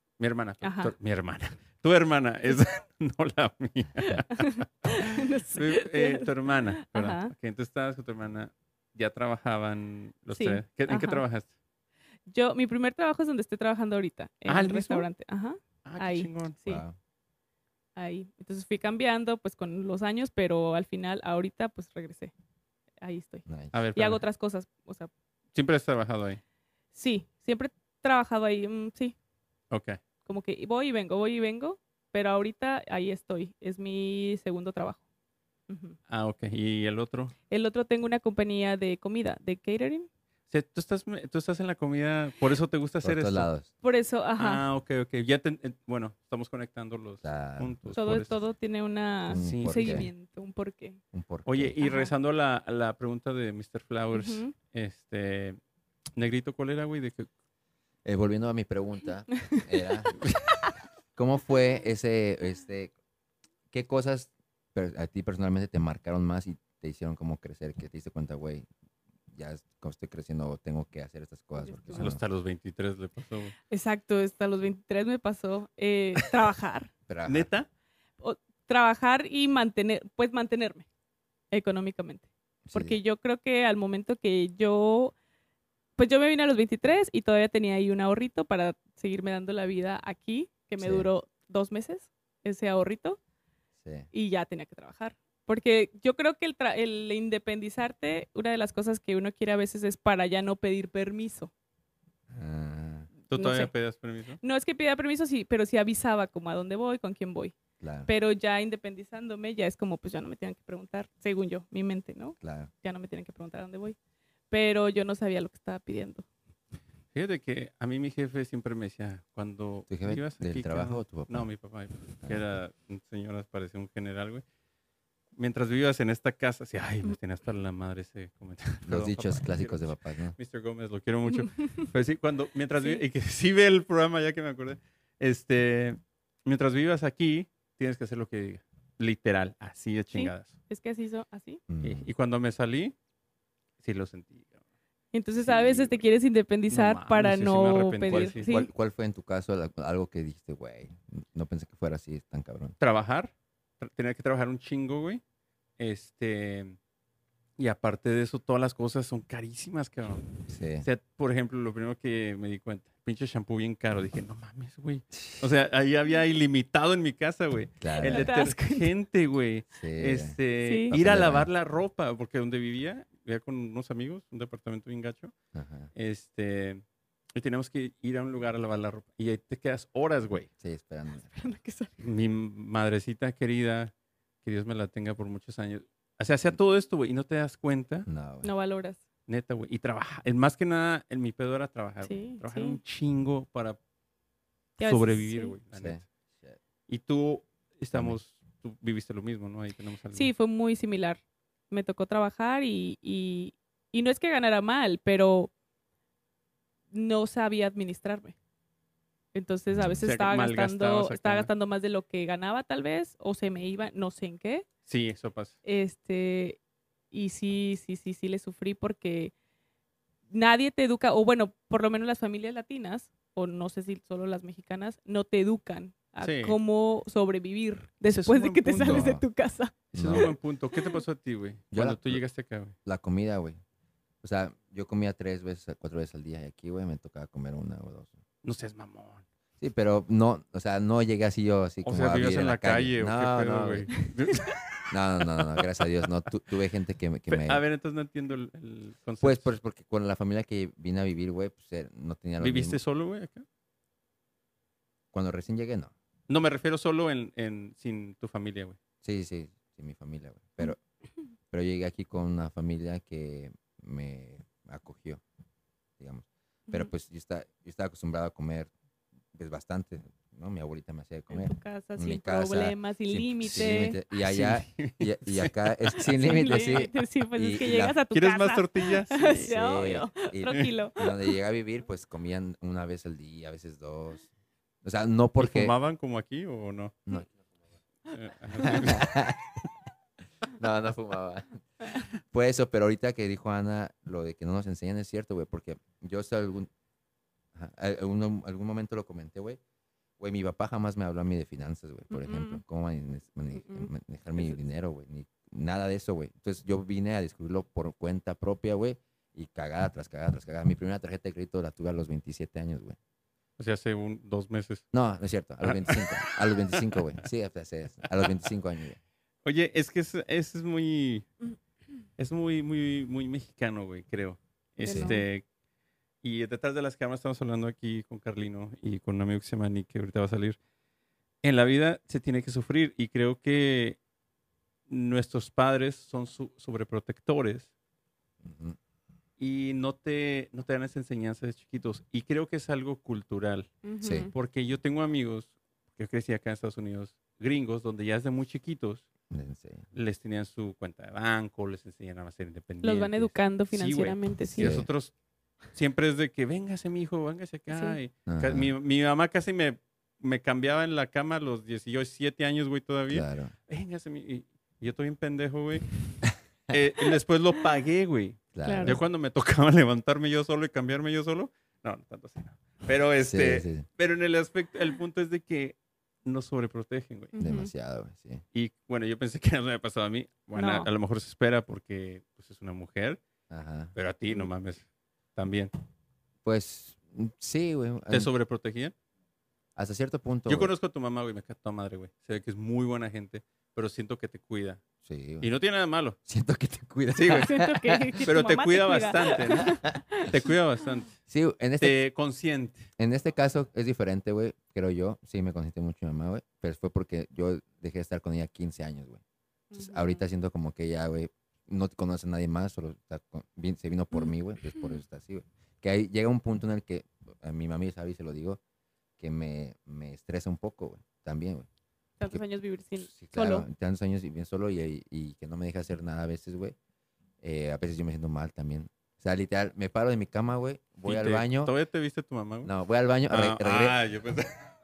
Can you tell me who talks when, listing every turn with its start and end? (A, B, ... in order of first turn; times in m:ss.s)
0:00.2-0:11.5 A
0:00.6-0:00.9 B
0:04.3-0:07.3 B
0:10.3-0:11.2 B
0:12.3-0:16.8 B
0:14.5-0:15.1 A
0:15.8-0:16.6 A
0:16.7-0:17.0 C
0:18.0-0:22.3 B
0:23.0-0:25.1 B
0:23.5-0:23.7 C
0:23.7-0:24.2 A
0:25.5-0:26.4 A
0:26.9-0:29.2 B
0:29.7-0:30.0 A
0:30.3-0:35.0 B
0:35.7-0:36.0 B
0:36.1-0:37.3 A
0:37.5-0:40.1 B
0:40.5-0:43.5 A
0:43.0-0:43.7 C
0:43.8-0:44.6 B
0:44.4-0:48.3 A
0:47.2-0:48.3 C
0:47.9-0:51.0 B
0:49.3-0:50.1 C
0:49.4-0:50.1 A
0:51.1-0:51.8 C
0:51.5-0:55.6 A
0:51.8-0:52.1 B
0:54.1-0:54.5 B
0:56.2-0:57.3 A
0:58.0-1:00.2 C
1:01.2-1:02.9 C
1:03.7-1:08.7 C
1:09.3-1:12.2 C
1:11.6-1:12.1 B
1:12.0-1:13.6 A
1:13.7-1:16.9 B
1:17.1-1:17.5 C
1:17.3-1:17.7 A
1:18.2-1:20.9 B
1:21.5-1:25.2 B
1:22.6-1:23.0 C
1:26.0-1:33.2 B
1:30.8-1:31.1 C
1:33.8-1:34.1 C
1:34.1-1:41.5 B
1:42.3-1:43.1 C
1:43.3-1:44.4 A
1:43.3-1:43.7 B
1:44.4-1:54.0 B
1:47.8-1:48.1 C
1:52.4-1:52.7 C
1:54.5-1:56.2 B
1:57.1-2:04.4 A
1:59.9-2:01.5 C
2:02.2-2:02.6 C
2:05.4-2:20.5 A
2:08.8-2:10.4 C
2:11.6-2:11.9 B
2:20.1-2:21.6 B
2:21.7-2:22.1 C
2:21.8-2:23.0 A
2:23.8-2:24.6 A
2:25.1-2:28.7 B
2:25.4-2:25.9 C
2:26.7-2:28.5 A
2:28.1-2:32.8 C
2:32.8-2:35.2 A
2:35.8-2:36.8 A
2:37.6-2:55.3 A
2:40.5-2:40.9 C
2:47.8-2:48.3 C
2:48.1-2:48.9 B
2:49.8-2:50.4 C
2:50.6-2:50.9 B
2:50.9-2:51.5 C
2:55.5-2:55.9 C
2:56.0-2:56.8 A
2:57.4-3:00.5 A
3:00.6-3:01.4 C
3:01.3-3:02.0 B
3:02.0-3:08.1 A
3:08.1-3:08.5 C
3:08.4-3:09.0 B
3:09.3-3:13.8 A
3:12.0-3:12.8 B
3:14.8-3:15.6 B
3:14.8-3:16.1 A
3:15.7-3:16.6 C
3:16.9-3:20.3 A
3:20.1-3:25.5 B
3:26.9-3:28.4 B
3:29.3-3:34.7 B
3:30.0-3:31.5 A
3:34.9-3:35.6 A
3:35.6-3:36.6 B
3:37.1-3:39.3 B
3:40.3-3:51.0 B
3:46.2-3:46.6 A
3:48.1-3:49.1 A
3:48.8-3:49.2 C
3:49.9-3:50.3 C
3:49.9-3:52.8 A
3:51.7-3:52.2 C
3:52.8-3:53.6 C
3:54.2-3:58.2 C
3:58.4-3:59.2 A
3:59.6-4:03.9 C
4:01.8-4:05.0 A
4:04.9-4:07.6 C
4:05.6-4:05.8 A
4:07.3-4:09.5 A
4:09.2-4:12.8 C
4:12.4-4:13.4 A
4:15.1-4:15.9 C
4:16.3-4:18.8 A
4:19.0-4:20.8 C
4:21.5-4:25.2 C
4:26.0-4:28.7 C
4:29.3-4:38.0 C
4:31.3-4:34.0 B
4:33.5-4:36.9 A
4:36.2-4:41.3 B
4:38.1-4:39.4 A
4:39.3-4:44.3 C
4:44.8-4:45.8 C
4:45.4-4:47.0 A
4:47.1-4:47.3 C
4:48.1-4:49.1 A
4:48.6-4:49.6 C
4:50.6-4:56.7 C
4:57.6-4:59.6 C
5:00.2-5:13.0 C
5:02.1-5:02.6 B
5:03.6-5:04.5 B
5:13.6-5:14.8 A
5:14.9-5:19.0 C
5:15.6-5:17.0 A
5:19.4-5:21.3 A
5:22.2-5:25.4 A
5:24.8-5:25.2 C
5:24.8-5:25.2 B
5:26.2-5:30.6 A
5:31.4-5:34.0 A
5:34.9-5:37.7 A
5:38.4-5:38.8 C
5:39.4-5:43.7 A
5:43.8-5:44.3 B
5:44.0-5:44.3 C
5:44.3-5:49.1 A
5:49.3-5:49.9 C
5:49.9-5:55.1 A
5:52.8-5:54.9 B
5:54.6-5:54.9 C
5:55.7-6:06.2 A
5:57.7-5:58.0 B
5:58.3-5:58.7 C
6:03.1-6:03.5 C
6:06.7-6:17.3 A
6:08.5-6:09.0 C
6:08.6-6:09.0 B
6:13.2-6:13.9 C
6:17.3-6:17.7 B
6:17.4-6:18.4 C
6:18.5-6:23.2 A
6:20.6-6:20.9 B
6:23.5-6:24.0 C
6:24.0-6:25.7 A
6:26.4-6:28.3 C
6:28.1-6:28.9 A
6:29.8-6:30.7 C
6:30.5-6:34.8 A
6:35.0-6:35.5 C
6:35.4-6:36.2 A
6:36.3-6:38.2 C
6:37.2-6:37.6 A
6:37.3-6:40.5 B
6:38.2-6:41.2 A
6:41.3-6:42.0 C
6:41.8-6:42.9 A
6:43.0-6:49.2 C
6:49.7-6:50.2 B
6:49.8-6:58.6 C
6:59.2-7:01.7 C
7:02.2-7:03.7 B
7:03.1-7:06.8 C
7:07.4-7:11.7 C
7:11.0-7:12.7 A
7:12.6-7:14.0 C
7:13.3-7:14.6 A